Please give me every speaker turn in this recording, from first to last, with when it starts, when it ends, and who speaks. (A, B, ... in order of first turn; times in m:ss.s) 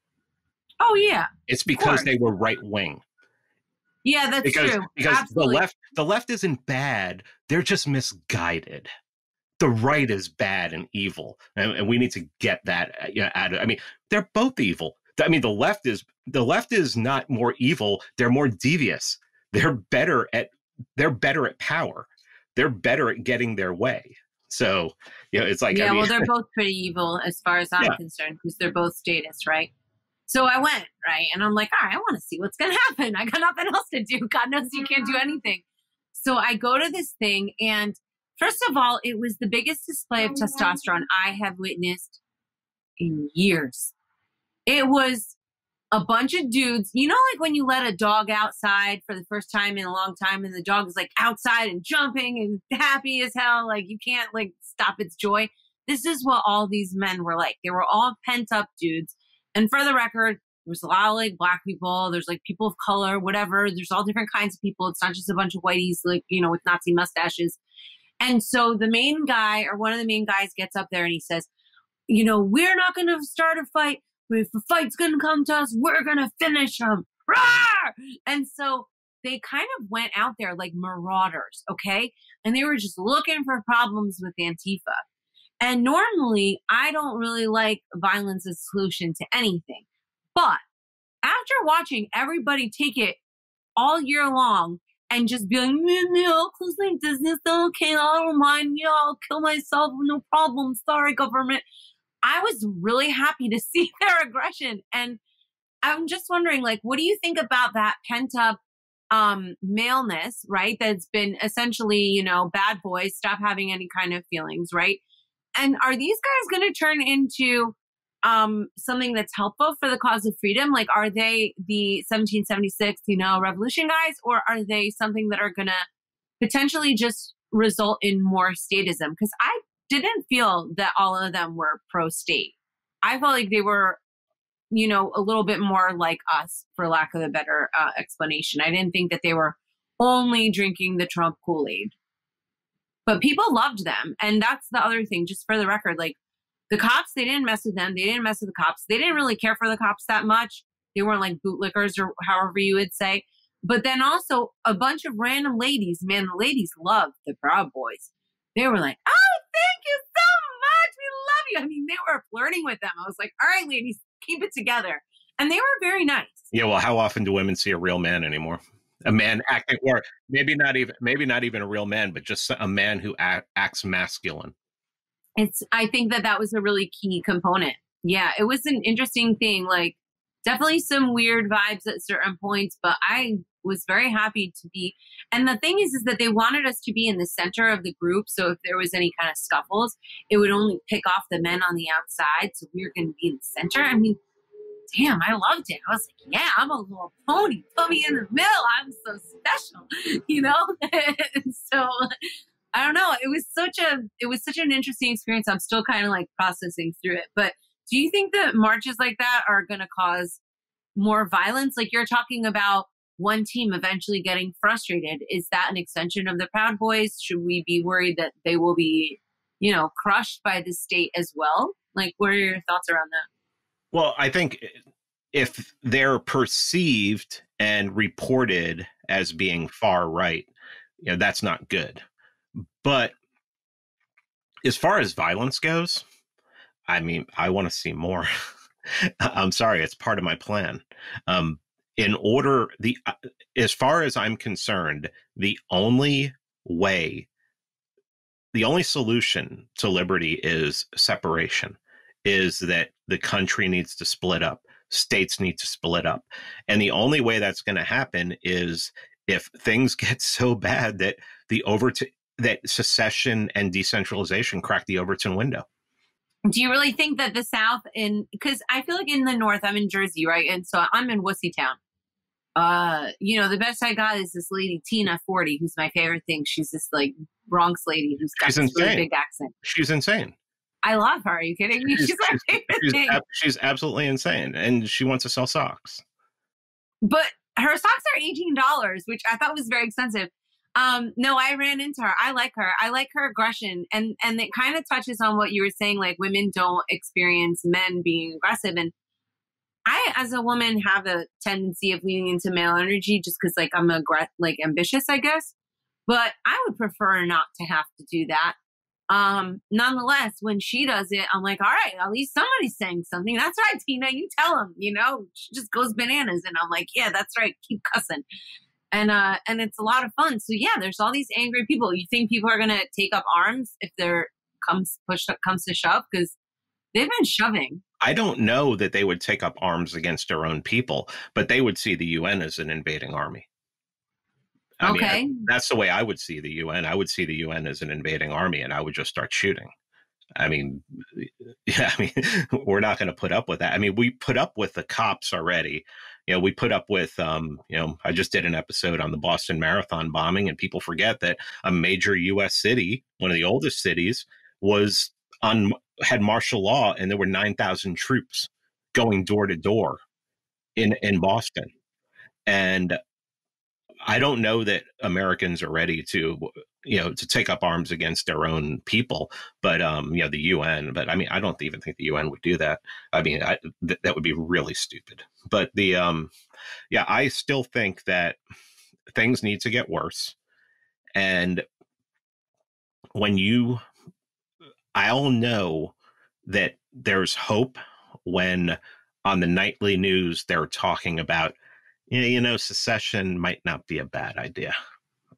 0:00.8-0:02.1 A
0:01.5-0:03.0 B
0:04.0-0:05.6 A
0:04.4-0:08.9 B
0:09.6-0:26.3 B
0:25.7-0:29.7 A
0:30.3-0:42.2 A
0:43.0-0:43.9 A
0:44.7-0:45.4 A
0:45.9-1:07.6 A
1:08.2-1:11.5 A
1:12.1-1:25.0 A
1:25.6-1:30.6 A
1:31.2-1:33.2 A
1:33.8-1:41.6 A
1:42.2-1:45.2 A
1:45.8-1:48.6 A
1:49.1-1:55.0 A
1:55.6-2:05.8 A
2:06.4-2:14.0 A
2:14.7-2:21.9 A
2:23.0-2:26.1 A
2:26.7-2:46.5 A
2:46.5-2:54.5 B
2:55.4-3:14.2 A
3:14.9-3:30.4 A
3:31.0-3:43.3 A
3:43.9-3:44.8 B
3:45.3-3:50.5 B
3:51.0-3:52.0 B
3:52.8-3:53.1 B
3:54.6-3:56.0 B
3:56.9-3:58.3 B
3:59.0-4:07.3 B
4:08.5-4:25.6 B
4:26.5-4:31.8 A
4:32.6-4:39.5 A
4:38.4-4:39.0 B
4:39.6-4:40.3 B
4:40.8-4:43.2 A
4:41.8-4:46.0 B
4:47.0-4:58.9 A
4:59.9-5:05.5 A
5:06.1-5:08.5 A
5:09.1-5:18.2 A
5:18.9-5:26.3 A
5:26.9-5:27.8 A
5:28.0-5:33.4 B
5:34.8-5:39.7 B
5:34.8-5:35.3 A
5:40.4-6:00.0 B
6:00.8-6:01.7 B
6:02.4-6:03.0 B
6:04.0-6:16.3 B
6:16.9-6:18.4 B
6:19.1-6:20.3 B
6:21.1-6:21.6 B
6:23.1-6:23.8 B
6:24.9-6:25.9 B
6:26.4-6:31.5 B
6:32.1-6:34.7 B